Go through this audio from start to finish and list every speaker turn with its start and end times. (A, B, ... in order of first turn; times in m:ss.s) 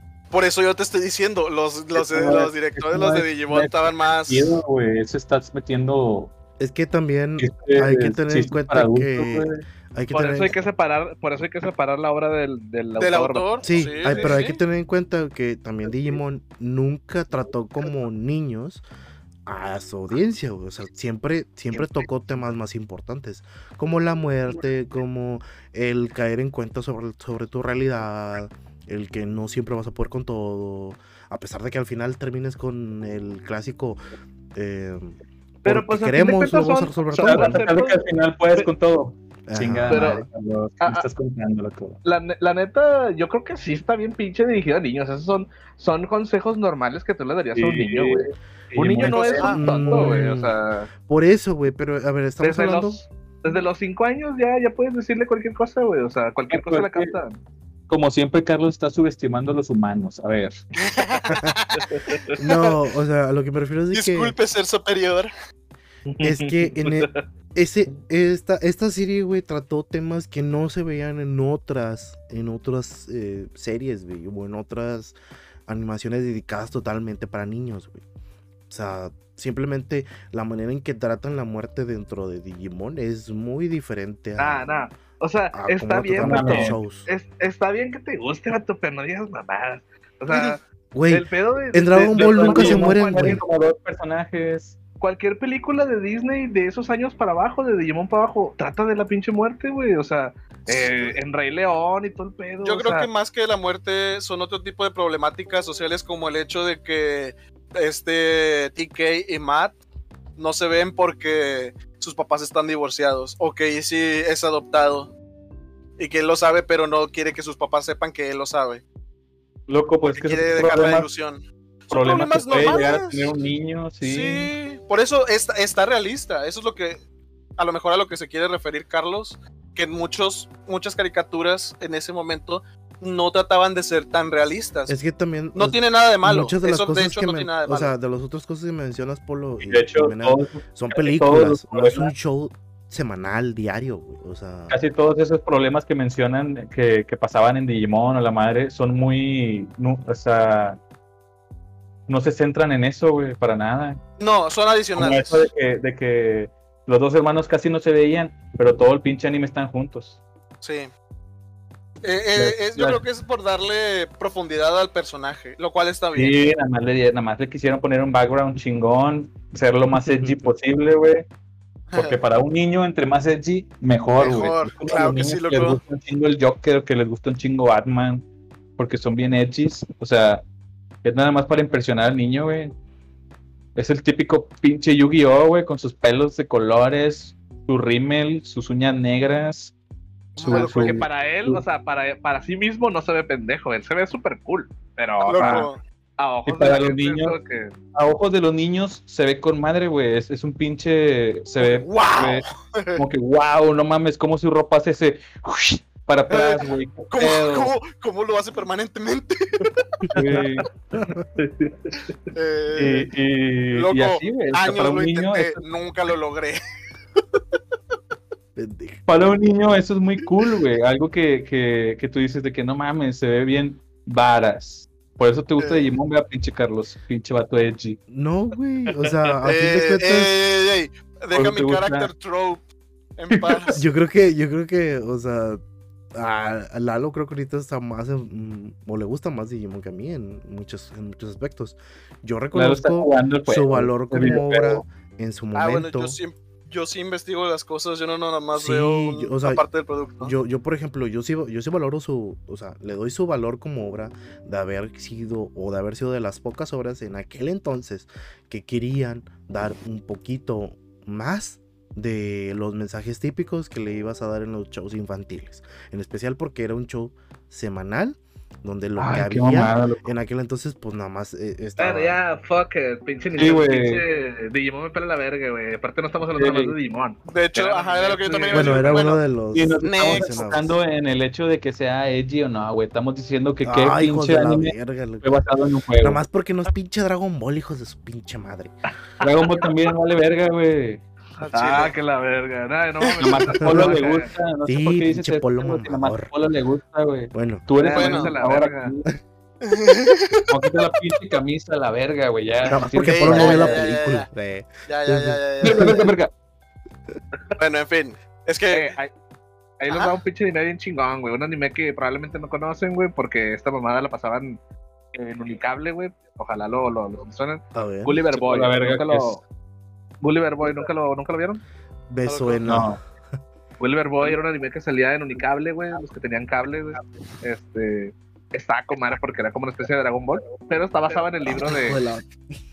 0:00.3-0:04.6 A
0:01.9-0:06.3 B
0:06.6-0:10.5 C
0:07.4-0:09.6 B
0:10.1-0:14.6 D
0:13.0-0:14.4 A
0:13.6-0:18.8 C
0:19.4-0:34.0 C
0:21.7-0:22.3 D
0:34.5-0:37.6 C
0:35.6-0:38.0 D
0:37.2-0:42.0 B
0:39.5-0:40.2 C
0:39.9-0:40.2 D
0:40.8-0:41.1 D
0:42.0-0:50.9 D
0:47.5-0:50.3 B
0:49.0-0:49.6 A
0:49.5-0:50.5 C
0:51.0-0:53.0 C
0:52.4-0:57.4 D
0:56.5-0:57.1 B
0:57.9-1:00.6 B
1:00.8-1:02.8 A
1:01.8-1:02.3 D
1:02.4-1:04.3 C
1:03.9-1:05.3 A
1:06.1-1:07.2 D
1:06.2-1:15.2 C
1:15.7-1:18.0 C
1:18.7-1:24.7 C
1:24.4-1:33.4 D
1:25.5-1:27.1 C
1:26.2-1:26.8 B
1:30.3-1:30.6 A
1:30.9-1:33.4 C
1:32.1-1:34.8 B
1:35.0-1:43.1 D
1:40.7-1:41.1 C
1:42.6-1:49.8 A
1:50.4-1:55.1 A
1:56.0-1:58.8 A
1:59.7-2:01.1 B
2:00.0-2:03.3 A
2:01.9-2:04.5 B
2:02.2-2:02.9 D
2:04.0-2:07.0 A
2:07.6-2:15.0 A
2:14.9-2:24.8 C
2:15.5-2:17.9 A
2:19.6-2:22.1 B
2:24.7-2:30.8 B
2:32.1-2:34.0 B
2:34.2-2:35.5 A
2:34.9-2:40.2 B
2:40.6-2:40.9 A
2:42.0-2:46.4 A
2:42.3-2:43.0 B
2:46.2-2:51.3 B
2:51.9-2:52.2 A
2:51.9-2:58.2 B
2:54.2-2:55.8 A
2:58.8-3:00.4 B
3:01.0-3:02.7 B
3:03.8-3:09.7 B
3:10.4-3:11.0 A
3:10.4-3:11.6 B
3:10.5-3:17.7 D
3:15.2-3:15.8 A
3:15.4-3:15.7 B
3:16.4-3:17.4 B
3:17.9-3:27.7 B
3:21.6-3:23.0 A
3:26.3-3:30.0 A
3:30.1-3:30.6 B
3:30.9-3:31.2 C
3:31.4-3:32.2 D
3:32.3-3:33.1 A
3:32.8-3:35.6 B
3:33.7-3:36.6 A
3:38.6-3:39.0 C
3:39.0-3:48.0 B
3:45.6-3:45.9 A
3:48.1-3:50.3 C
3:49.4-3:53.8 A
3:51.3-3:52.1 B
3:53.3-3:53.8 B
3:53.7-3:55.6 C
3:56.1-4:06.2 C
4:02.5-4:04.8 B
4:05.5-4:10.3 A
4:08.5-4:09.6 C
4:10.2-4:32.2 C
4:29.0-4:30.0 B
4:31.8-4:39.1 D
4:33.4-4:34.0 B
4:36.4-4:36.7 B
4:37.3-4:39.2 A
4:38.5-4:40.7 C
4:39.5-4:46.2 B
4:39.8-4:40.5 A
4:43.6-4:45.3 C
4:46.0-4:48.7 C
4:49.2-4:49.6 D
4:49.2-4:51.0 B
4:51.4-4:51.9 A
4:51.5-4:54.3 D
4:53.0-4:53.5 A
4:53.2-4:59.1 B
4:53.6-4:54.0 C
4:54.6-4:56.3 C
4:57.3-4:57.6 C
4:57.8-4:58.9 D
4:57.9-4:58.3 A
4:59.6-5:00.4 A
5:00.5-5:03.8 B
5:02.6-5:06.0 C
5:03.1-5:04.3 A
5:04.9-5:06.1 A
5:05.6-5:06.3 B
5:07.6-5:08.9 A
5:08.7-5:09.1 D
5:09.8-5:14.6 D
5:15.1-5:19.4 D
5:17.7-5:18.2 C
5:18.3-5:19.3 B
5:20.2-5:21.6 D
5:22.1-5:22.9 C
5:22.2-5:22.6 A
5:22.6-5:23.0 B
5:23.8-5:32.0 D
5:31.5-5:32.6 C